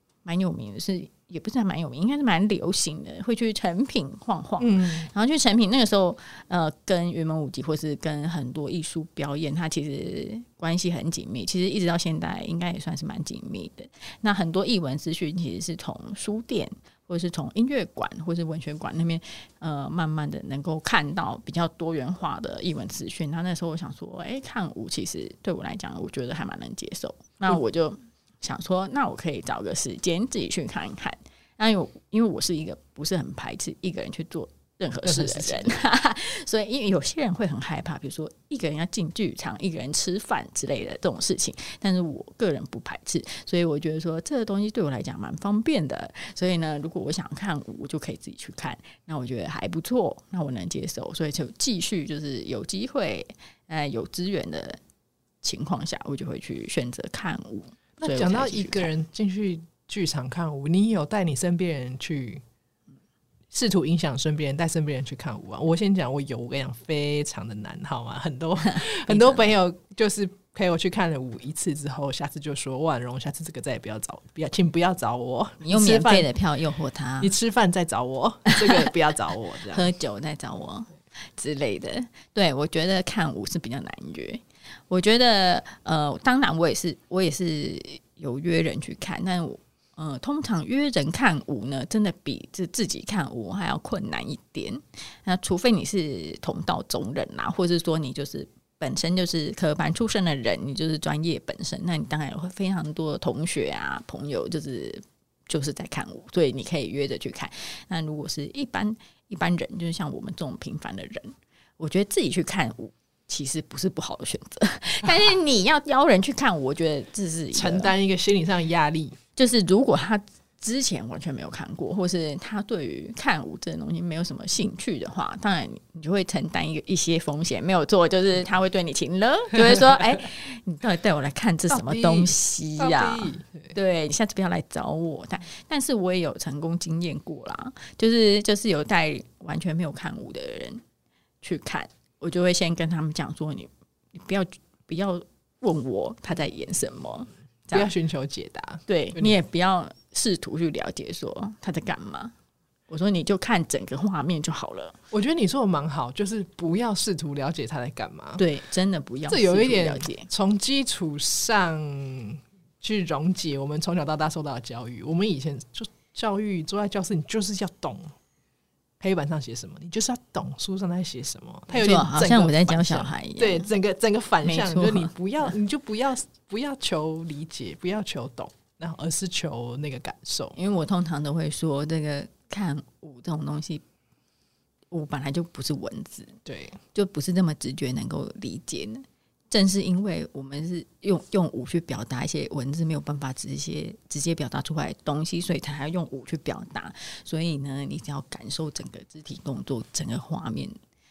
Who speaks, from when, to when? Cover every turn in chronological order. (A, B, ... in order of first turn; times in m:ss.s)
0:00.2-0:54.8 A
0:04.6-0:05.1 B
0:35.0-0:35.8 B
0:55.4-0:58.9 A
0:58.0-1:02.4 B
1:03.5-1:16.3 B
1:08.7-1:09.5 A
1:15.6-1:17.3 A
1:17.2-1:19.9 B
1:19.7-1:57.9 A
1:57.5-1:59.2 B
1:59.4-2:20.8 A
2:11.7-2:13.7 B
2:21.4-2:27.9 A
2:27.7-2:29.4 B
2:28.9-2:32.3 A
2:32.9-2:35.0 A
2:35.1-2:38.4 B
2:38.4-2:40.3 A
2:39.3-2:48.1 B
2:49.0-3:00.6 B
2:51.7-2:53.7 A
2:54.4-2:55.1 A
3:00.5-3:03.8 A
3:04.9-3:06.4 A
3:06.4-3:06.8 B
3:06.9-3:20.8 A